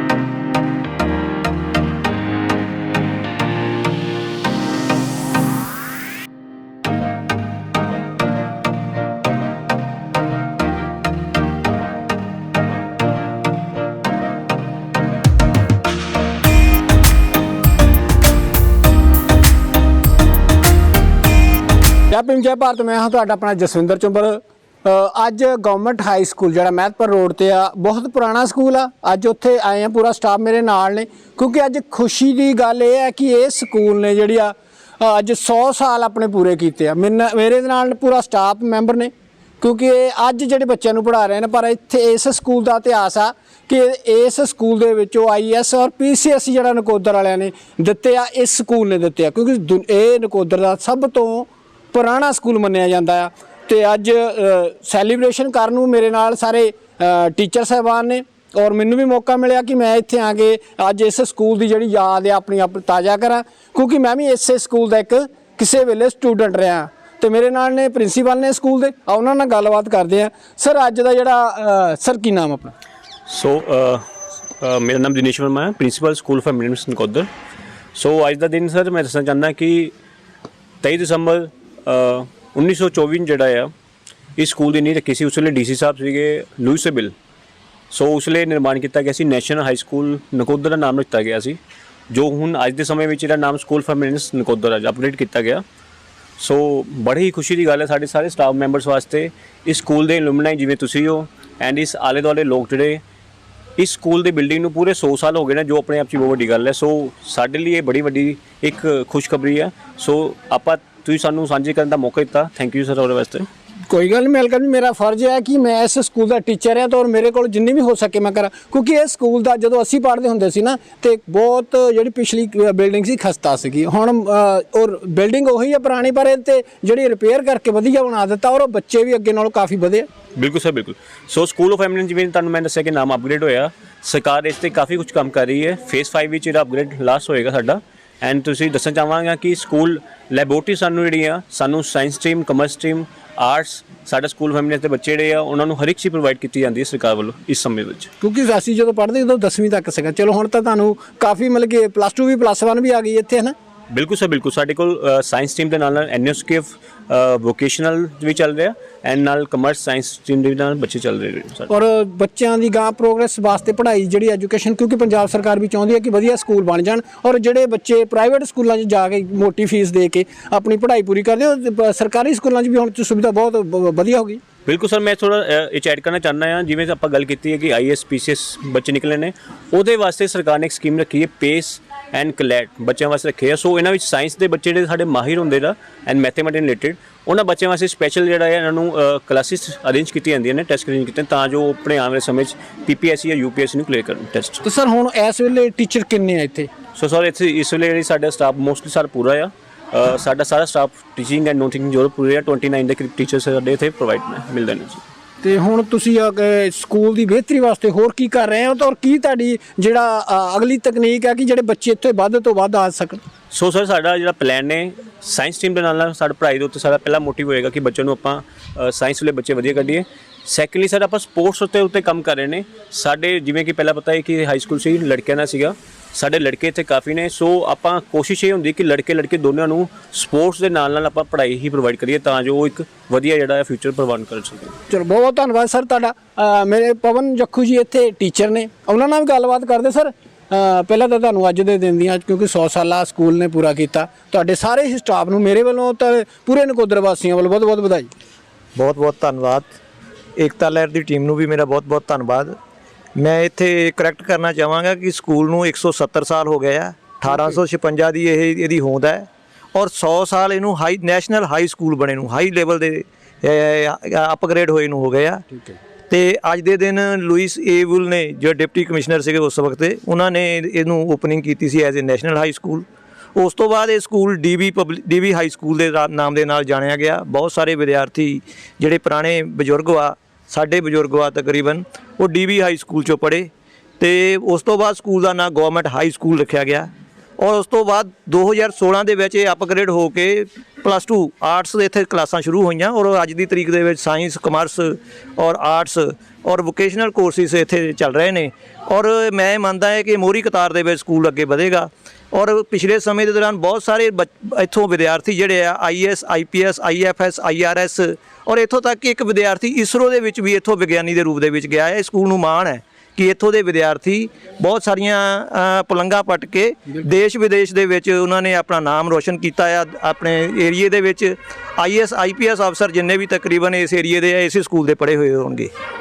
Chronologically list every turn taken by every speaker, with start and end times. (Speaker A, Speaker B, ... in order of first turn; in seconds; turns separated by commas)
Speaker A: 22.1-72.7, Speaker B: 73.2-74.0, Speaker B: 74.6-77.3, Speaker B: 77.9-79.9, Speaker B: 80.8-83.7, Speaker B: 84.4-87.1, Speaker B: 87.9-91.6, Speaker B: 92.1-95.6, Speaker B: 96.4-103.0, Speaker B: 103.8-113.5, Speaker A: 113.9-130.1, Speaker B: 130.4-148.1, Speaker A: 148.2-153.5, Speaker B: 153.9-161.7, Speaker A: 161.7-174.4, Speaker B: 174.7-194.6, Speaker A: 194.6-196.7, Speaker B: 196.9-205.0, Speaker A: 205.4-213.2, Speaker B: 213.5-234.8, Speaker A: 234.9-248.1, Speaker C: 248.8-249.7, Speaker C: 250.4-252.5, Speaker C: 253.2-272.8, Speaker C: 273.4-283.5, Speaker C: 284.0-286.9, Speaker C: 287.4-325.7